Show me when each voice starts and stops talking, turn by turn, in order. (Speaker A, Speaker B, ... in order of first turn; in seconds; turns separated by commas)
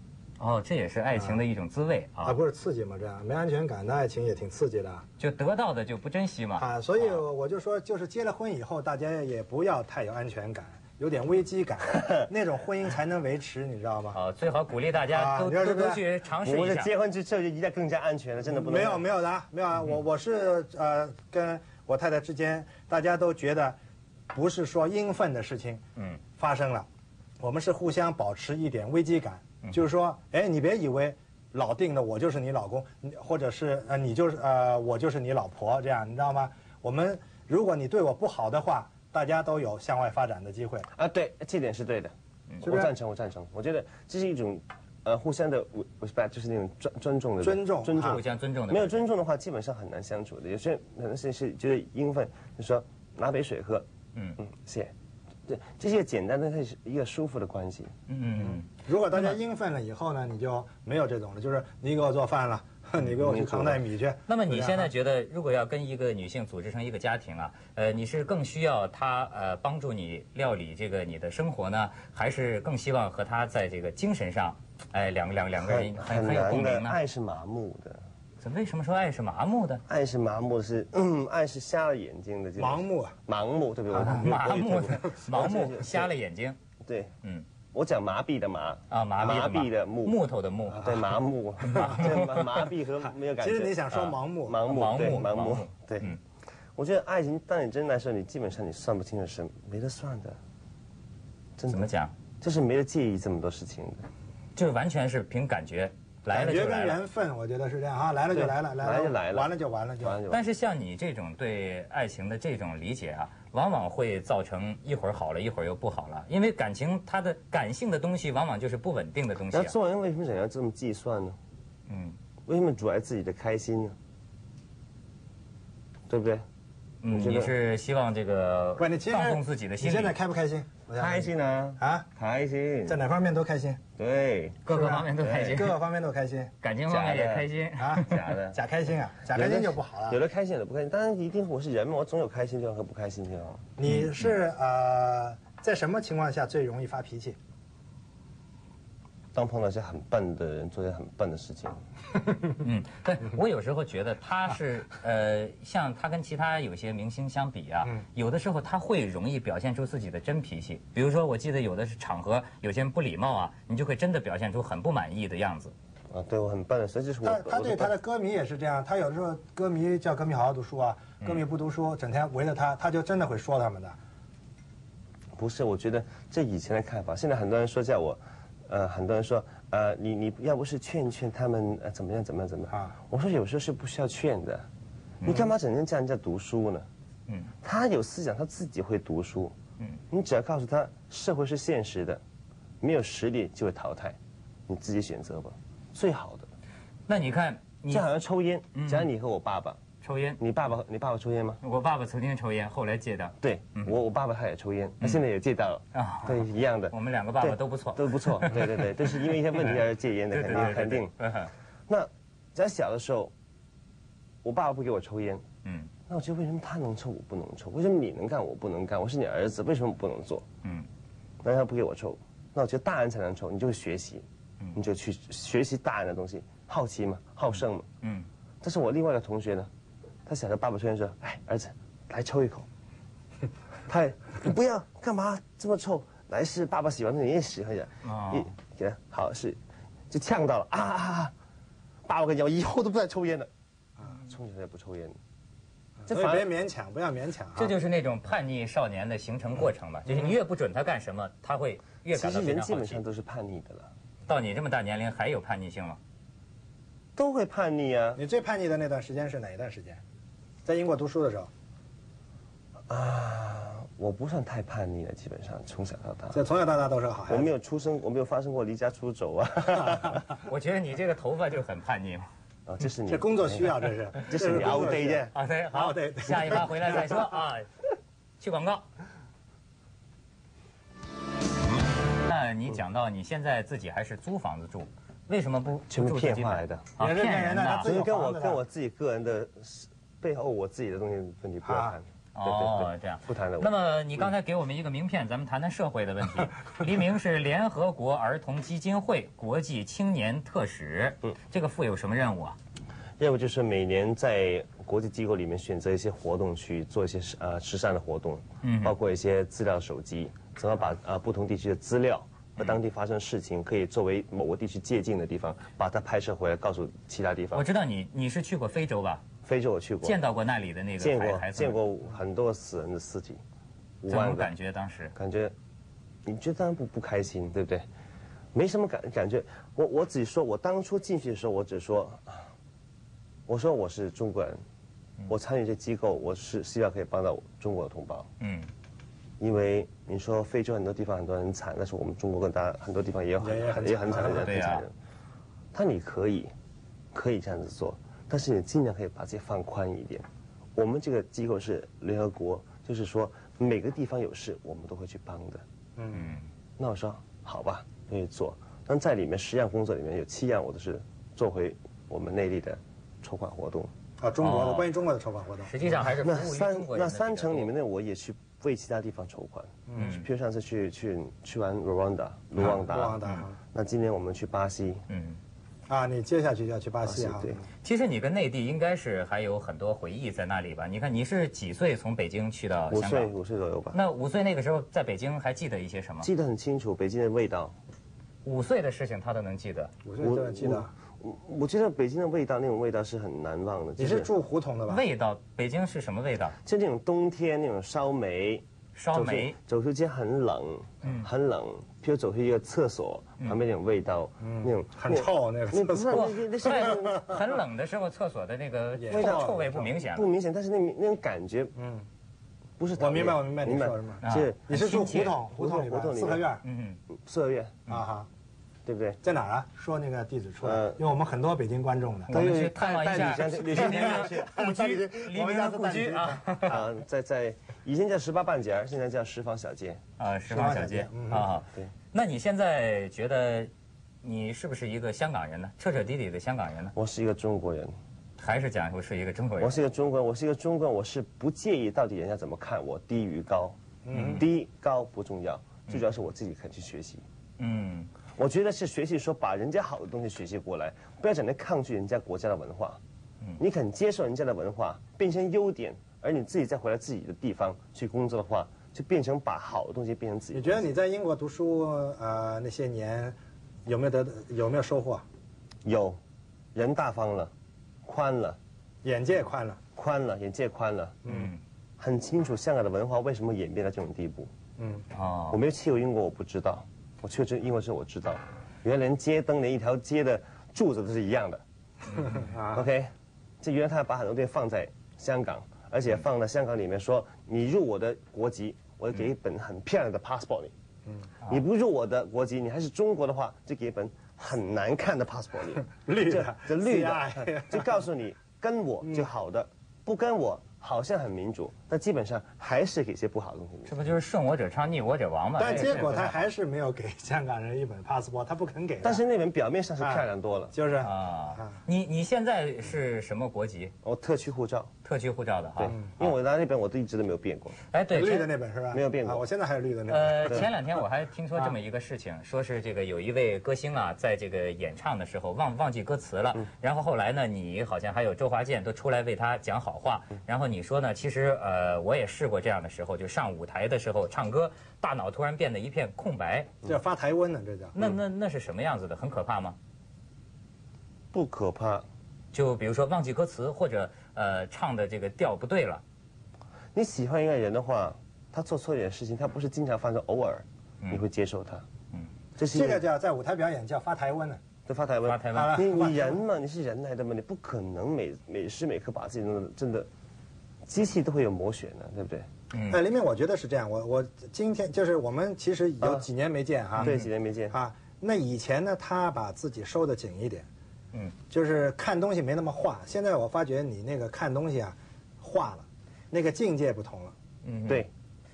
Speaker A: 0.4-2.4, Speaker B: 2.2-5.0, Speaker A: 5.2-7.2, Speaker B: 6.6-14.2, Speaker A: 14.1-16.9, Speaker B: 15.1-16.0, Speaker C: 16.4-19.0, Speaker B: 18.5-23.8, Speaker B: 24.3-25.8, Speaker A: 25.9-26.2, Speaker B: 26.4-26.9, Speaker B: 27.4-40.9, Speaker C: 40.9-53.9, Speaker B: 42.6-42.9, Speaker B: 47.4-48.2, Speaker A: 47.9-49.0, Speaker C: 54.4-54.9, Speaker C: 55.5-57.9, Speaker A: 58.1-59.4, Speaker B: 58.4-64.9, Speaker C: 63.0-63.8, Speaker A: 64.3-77.0, Speaker C: 75.6-78.0, Speaker A: 78.4-79.8, Speaker C: 79.9-86.1, Speaker B: 82.6-83.2, Speaker A: 83.9-86.6, Speaker B: 84.0-84.3, Speaker C: 86.8-87.1, Speaker C: 87.7-90.2, Speaker A: 88.9-91.0, Speaker C: 90.8-96.1, Speaker A: 91.6-92.4, Speaker B: 91.8-92.1, Speaker B: 93.4-94.6, Speaker A: 94.6-96.2, Speaker C: 96.8-100.4, Speaker C: 101.6-101.9, Speaker A: 101.7-102.1, Speaker C: 102.4-104.0, Speaker A: 104.5-107.0, Speaker B: 106.3-110.2, Speaker C: 108.3-110.4, Speaker A: 110.3-119.7, Speaker C: 119.5-121.4, Speaker A: 121.9-122.2, Speaker C: 122.5-124.0, Speaker C: 126.1-126.4, Speaker A: 127.0-130.2, Speaker C: 127.1-127.5, Speaker B: 128.8-132.1, Speaker C: 130.9-133.0, Speaker B: 132.9-133.8, Speaker C: 134.0-134.7, Speaker A: 134.6-135.8, Speaker B: 134.7-136.5, Speaker C: 135.2-135.6, Speaker A: 136.6-138.2, Speaker C: 136.9-137.5, Speaker B: 137.8-140.2, Speaker C: 138.0-138.6, Speaker C: 139.3-143.7, Speaker B: 143.8-147.4, Speaker A: 143.8-144.3, Speaker C: 149.3-151.8, Speaker A: 152.6-165.7, Speaker C: 166.1-167.9, Speaker B: 167.2-173.9, Speaker C: 175.3-184.7, Speaker A: 185.2-185.5, Speaker C: 185.2-186.9, Speaker C: 187.6-189.6, Speaker C: 190.1-192.2, Speaker C: 192.8-196.5, Speaker A: 197.1-198.1, Speaker C: 197.9-199.8, Speaker A: 198.7-199.1, Speaker A: 200.0-200.4, Speaker C: 200.4-201.6, Speaker A: 201.6-203.9, Speaker C: 203.4-211.1, Speaker A: 205.9-209.2, Speaker A: 210.3-211.5, Speaker C: 211.9-213.3, Speaker C: 214.4-215.4, Speaker A: 215.6-215.9, Speaker C: 216.1-220.4, Speaker C: 221.4-227.9, Speaker A: 228.0-228.3, Speaker C: 228.6-229.7, Speaker C: 230.2-232.7, Speaker C: 233.9-239.6, Speaker A: 238.0-238.5, Speaker C: 240.1-241.3, Speaker C: 242.0-243.5, Speaker C: 244.1-245.2, Speaker B: 246.0-247.7, Speaker C: 246.1-246.5, Speaker A: 247.6-253.0, Speaker C: 252.1-253.9, Speaker A: 254.3-256.0, Speaker C: 257.1-258.2, Speaker B: 258.2-260.0, Speaker B: 260.6-261.5, Speaker C: 262.9-266.4, Speaker B: 266.3-267.5, Speaker C: 267.3-270.2, Speaker A: 270.4-272.3, Speaker C: 272.6-275.3, Speaker B: 273.1-277.2, Speaker A: 275.3-277.7, Speaker A: 278.4-278.9, Speaker A: 282.2-287.9, Speaker C: 285.9-286.9, Speaker B: 287.0-288.6, Speaker C: 287.8-293.7, Speaker B: 291.6-291.9, Speaker A: 292.3-302.6, Speaker C: 303.2-317.6, Speaker A: 308.6-308.9, Speaker A: 317.5-319.2, Speaker C: 319.4-320.2, Speaker A: 320.0-321.8, Speaker C: 321.0-323.4, Speaker C: 324.0-324.5, Speaker A: 324.1-325.1, Speaker C: 325.1-325.5, Speaker C: 326.2-327.9, Speaker C: 328.5-332.5, Speaker C: 333.5-334.6, Speaker C: 335.3-338.3, Speaker A: 338.4-338.7, Speaker C: 339.4-344.9, Speaker B: 343.4-344.6, Speaker A: 344.2-344.9, Speaker C: 345.7-346.5, Speaker C: 347.1-355.6, Speaker B: 356.0-356.3, Speaker A: 356.1-356.4, Speaker C: 356.8-363.9, Speaker B: 364.2-366.0, Speaker A: 364.4-364.9, Speaker A: 365.6-367.7, Speaker C: 366.2-373.2, Speaker B: 369.9-370.1, Speaker A: 369.9-370.2, Speaker B: 372.7-373.6, Speaker C: 373.7-375.0, Speaker A: 375.1-375.4, Speaker B: 375.9-377.6, Speaker C: 377.0-377.6, Speaker A: 377.8-383.3, Speaker C: 382.9-384.0, Speaker A: 383.9-386.3, Speaker C: 386.2-387.7, Speaker A: 388.4-389.9, Speaker B: 390.0-390.9, Speaker C: 390.2-394.3, Speaker B: 394.0-395.0, Speaker A: 394.9-396.6, Speaker C: 396.6-407.4, Speaker A: 398.9-399.6, Speaker A: 401.0-401.3, Speaker B: 404.4-407.0, Speaker A: 406.1-410.2, Speaker B: 408.9-409.8, Speaker C: 409.1-411.7, Speaker B: 411.8-412.1, Speaker C: 412.8-416.5, Speaker B: 413.0-416.6, Speaker A: 414.2-415.3, Speaker A: 416.6-417.0, Speaker C: 417.1-417.8, Speaker B: 417.9-418.3, Speaker C: 418.9-419.2, Speaker B: 419.2-422.6, Speaker C: 420.6-421.0, Speaker A: 422.3-426.8, Speaker C: 422.3-424.5, Speaker B: 423.1-426.7, Speaker C: 426.6-430.0, Speaker A: 430.2-433.7, Speaker B: 430.5-431.5, Speaker A: 434.2-436.9, Speaker C: 436.9-437.9, Speaker A: 438.4-439.8, Speaker C: 439.6-443.8, Speaker B: 444.0-444.4, Speaker A: 444.1-444.4, Speaker C: 444.3-447.2, Speaker A: 447.6-448.1, Speaker C: 448.3-453.0, Speaker C: 453.6-460.9, Speaker B: 460.5-465.2, Speaker C: 465.8-466.2, Speaker C: 466.7-467.5, Speaker C: 468.0-468.6, Speaker B: 469.0-469.8, Speaker C: 469.9-471.2, Speaker B: 471.2-471.5, Speaker A: 471.3-471.6, Speaker C: 472.0-474.5, Speaker B: 474.8-475.0, Speaker A: 475.1-475.6, Speaker C: 475.5-481.6, Speaker B: 482.2-482.8, Speaker C: 482.7-490.7, Speaker C: 491.4-503.9, Speaker B: 495.9-498.0, Speaker A: 503.9-506.4, Speaker B: 505.6-509.2, Speaker C: 509.0-510.7, Speaker B: 510.0-511.8, Speaker A: 511.0-513.9, Speaker C: 514.0-514.9, Speaker A: 515.0-516.0, Speaker C: 515.8-517.8, Speaker A: 517.9-518.5, Speaker B: 518.1-520.7, Speaker C: 518.9-519.4, Speaker A: 520.1-536.7, Speaker B: 536.8-537.9, Speaker A: 537.9-539.8, Speaker C: 541.3-542.0, Speaker A: 542.5-546.0, Speaker C: 546.9-551.8, Speaker C: 552.6-553.0, Speaker B: 552.6-554.6, Speaker C: 554.9-560.1, Speaker A: 555.2-555.8, Speaker B: 555.5-556.4, Speaker C: 560.8-562.5, Speaker A: 562.7-563.0, Speaker B: 562.9-567.1, Speaker C: 566.0-566.2, Speaker C: 567.0-567.8, Speaker A: 567.0-567.3, Speaker B: 567.7-570.6, Speaker B: 571.5-577.3, Speaker A: 577.6-578.1